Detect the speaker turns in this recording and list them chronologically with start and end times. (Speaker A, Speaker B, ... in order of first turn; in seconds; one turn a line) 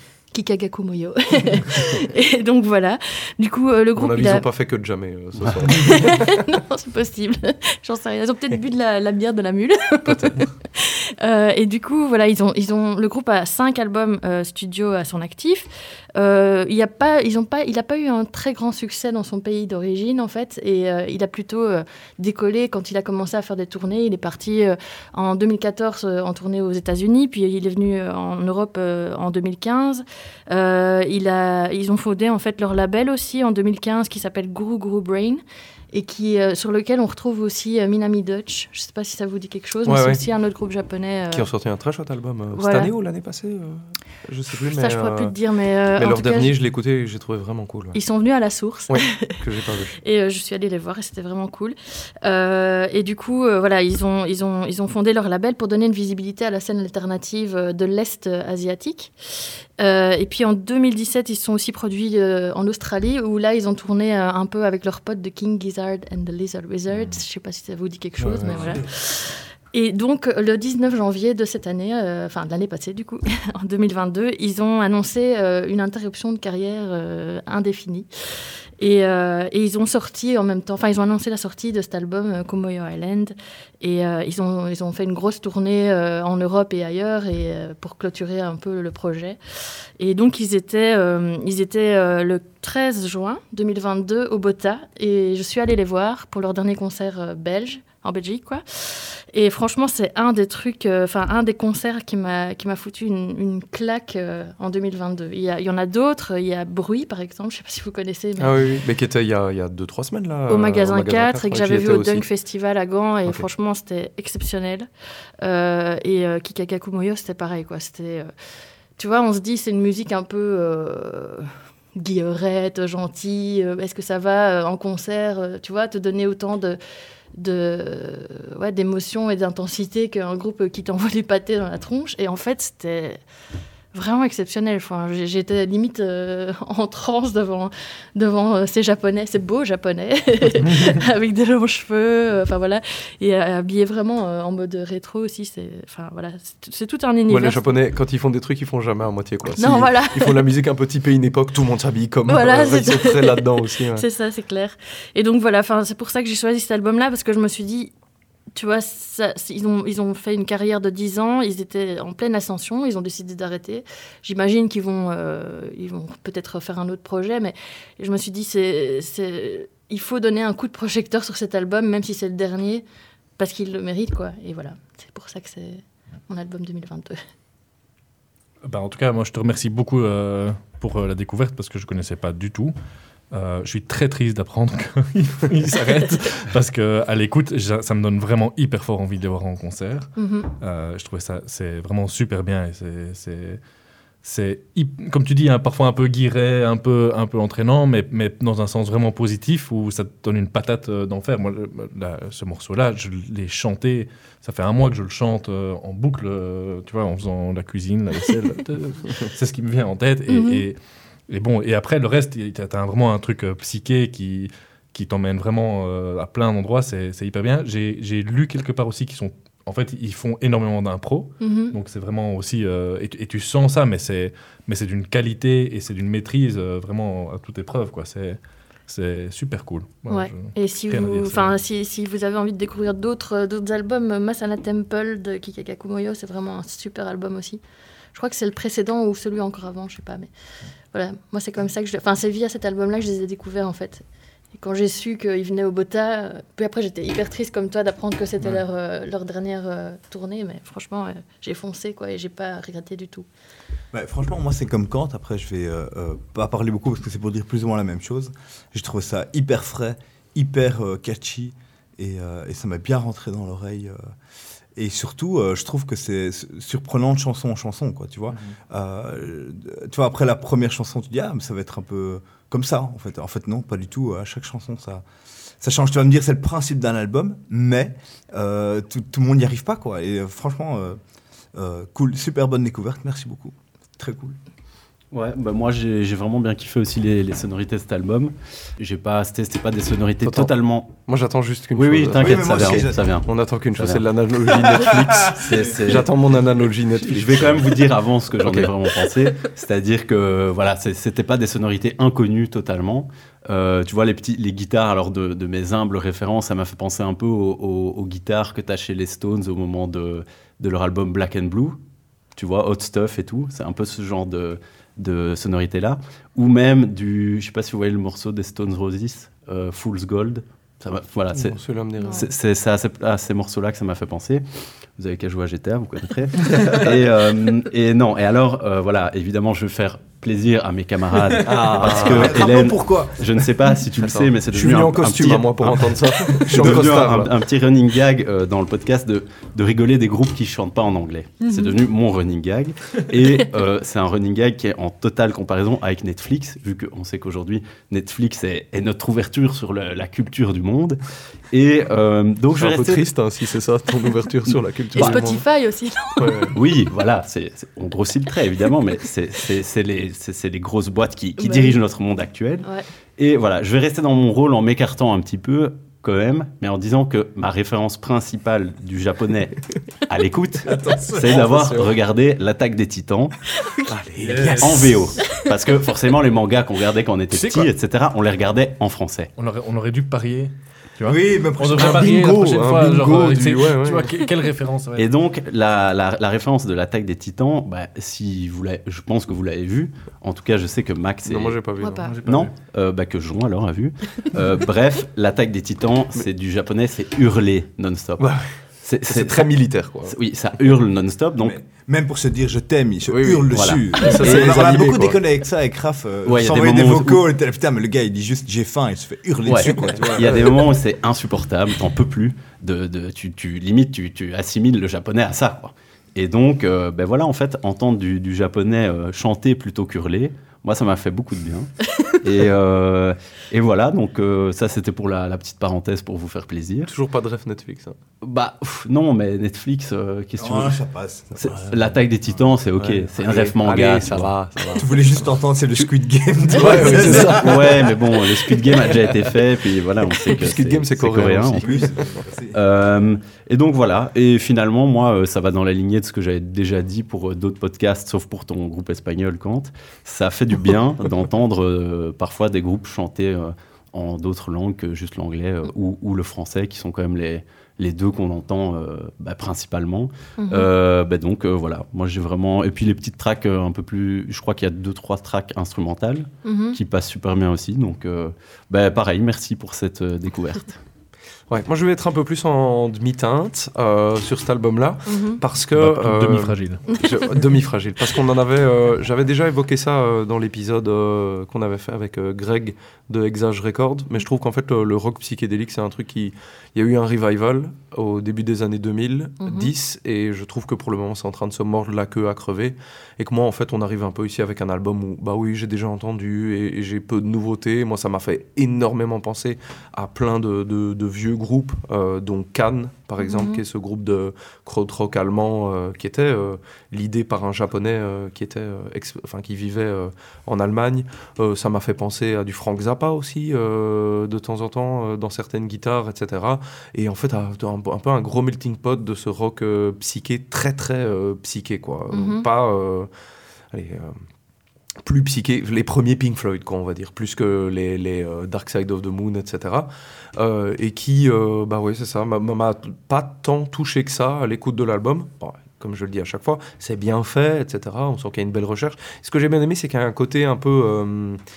Speaker A: 0.3-4.5
Speaker B: 4.0-6.1
Speaker A: 5.7-35.4
Speaker B: 10.1-10.4
Speaker A: 35.9-41.5
Speaker B: 39.9-40.2
Speaker B: 41.3-45.3
Speaker A: 42.6-42.9
Speaker A: 44.5-46.5
Speaker B: 46.0-48.0
Speaker A: 47.9-49.3
Speaker B: 48.9-50.0
Speaker A: 50.0-59.1
Speaker A: 59.8-78.1
Speaker B: 68.2-68.8
Speaker C: 68.4-68.7
Speaker A: 78.8-89.4
Speaker A: 90.0-108.7
Speaker B: 108.4-112.3
Speaker A: 110.5-114.9
Speaker A: 115.4-118.3
Speaker A: 119.0-126.8
Speaker A: 127.4-133.2
Speaker A: 133.9-147.8
Speaker B: 147.3-154.1
Speaker A: 149.6-150.4
Speaker A: 152.3-157.9
Speaker A: 158.6-172.8
Speaker A: 173.4-177.2
Speaker C: 178.7-182.7
Speaker C: 183.3-193.6
Speaker A: 190.2-190.5
Speaker C: 194.2-210.8
Speaker A: 210.3-210.6
Speaker C: 211.3-231.6
Speaker A: 221.4-221.8
Speaker A: 230.1-237.6
Speaker A: 238.1-240.3
Speaker A: 240.9-244.0
Speaker A: 244.6-253.3
Speaker D: 253.9-264.0
Speaker D: 264.8-275.1
Speaker D: 275.6-281.0
Speaker D: 281.6-284.4
Speaker E: 285.1-290.9
Speaker B: 290.2-290.5
Speaker B: 291.1-297.8
Speaker E: 291.8-294.1
Speaker D: 292.1-293.1
Speaker E: 295.2-296.1
Speaker E: 297.0-311.8
Speaker B: 298.4-298.7
Speaker E: 312.4-321.6
Speaker B: 321.3-322.3
Speaker A: 322.0-322.3
Speaker E: 322.1-324.4
Speaker E: 325.0-351.0
Speaker D: 331.4-333.2
Speaker B: 331.5-332.4
Speaker B: 333.9-337.3
Speaker A: 341.4-341.8
Speaker E: 351.5-353.1
Speaker B: 352.6-355.4
Speaker E: 354.9-355.2
Speaker A: 354.9-356.6
Speaker B: 356.2-356.5
Speaker E: 356.5-373.3
Speaker A: 361.4-361.8
Speaker B: 370.7-371.9
Speaker A: 373.6-373.9
Speaker B: 373.9-374.9
Speaker C: 374.2-375.0
Speaker E: 374.5-379.3
Speaker C: 377.3-377.7
Speaker C: 379.4-385.1
Speaker D: 381.0-382.3
Speaker B: 381.7-384.1
Speaker E: 384.9-391.6
Speaker B: 391.2-392.1
Speaker A: 391.8-392.2
Speaker C: 392.1-392.5
Speaker E: 392.2-398.3
Speaker E: 398.8-399.5
Speaker B: 399.0-400.2
Speaker E: 400.1-401.6
Speaker D: 401.4-410.3
Speaker B: 403.1-405.2
Speaker E: 403.5-404.4
Speaker E: 406.3-407.2
Speaker E: 409.4-421.7
Speaker B: 409.7-410.5
Speaker E: 422.2-426.9
Speaker B: 426.9-428.0
Speaker E: 428.2-430.8
Speaker D: 430.4-431.7
Speaker E: 431.4-434.3
Speaker B: 432.8-434.9
Speaker D: 434.8-437.8
Speaker B: 436.5-437.9
Speaker E: 436.8-441.9
Speaker B: 438.7-439.3
Speaker B: 440.2-441.9
Speaker D: 441.6-442.6
Speaker E: 442.5-470.8
Speaker A: 460.4-460.7
Speaker A: 466.4-466.8
Speaker B: 471.5-523.1
Speaker A: 475.1-475.4
Speaker C: 475.8-476.9
Speaker A: 489.4-489.7
Speaker A: 503.2-503.6
Speaker A: 522.1-522.5
Speaker B: 523.7-524.2
Speaker B: 525.0-541.4